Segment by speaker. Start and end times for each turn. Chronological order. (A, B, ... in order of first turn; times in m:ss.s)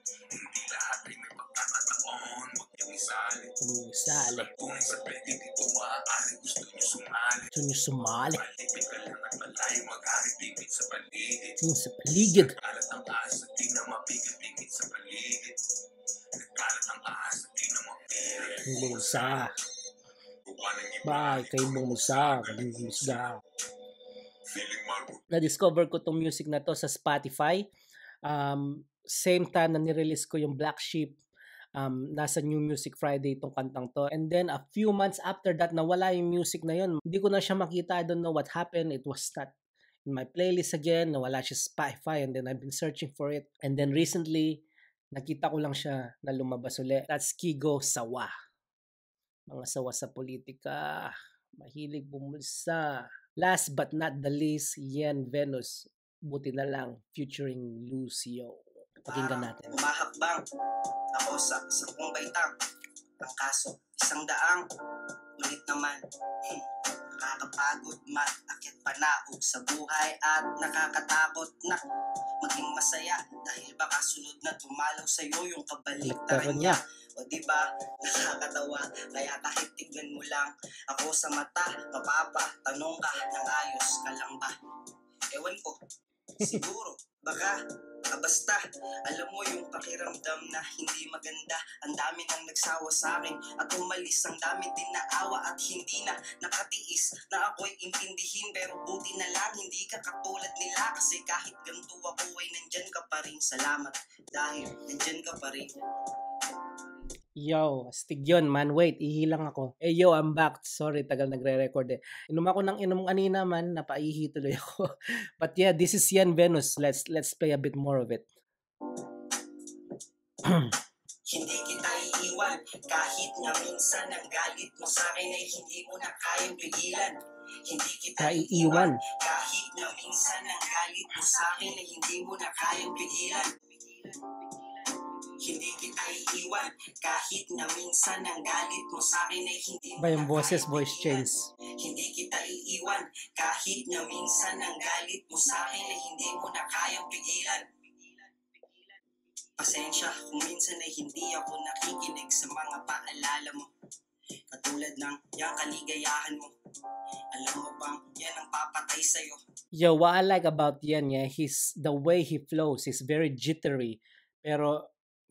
0:00.3-0:03.5 A
0:03.6-0:04.5 B
0:04.1-0:07.6 A
0:07.5-0:08.4 B
0:08.3-0:11.6 A
0:11.6-0:12.6 B
0:12.3-0:15.6 A
0:16.4-0:19.5 A
0:18.7-0:19.5 B
0:20.5-0:23.4 A
0:21.0-0:23.4 B
0:24.5-0:25.2 A
0:25.3-0:27.7 B
0:28.3-0:31.2 B
0:31.8-0:39.5 B
0:40.1-0:44.6 B
0:45.2-0:48.3 B
0:49.5-0:59.8 B
0:59.1-1:00.4 C
1:01.1-1:02.5 C
1:03.2-1:04.6 C
1:05.4-1:11.8 C
1:12.4-1:24.6 C
1:16.0-1:16.8 B
1:25.3-1:25.8 C
1:26.4-1:27.6 C
1:28.1-1:45.8 C
1:47.4-1:54.9 B
1:55.4-1:58.3 B
2:00.4-2:00.7 B
2:01.3-2:28.5 C
2:08.2-2:09.0 B
2:20.0-2:21.5 B
2:29.6-2:33.7 C
2:34.5-2:36.5 C
2:37.3-2:39.4 C
2:39.8-2:44.8 B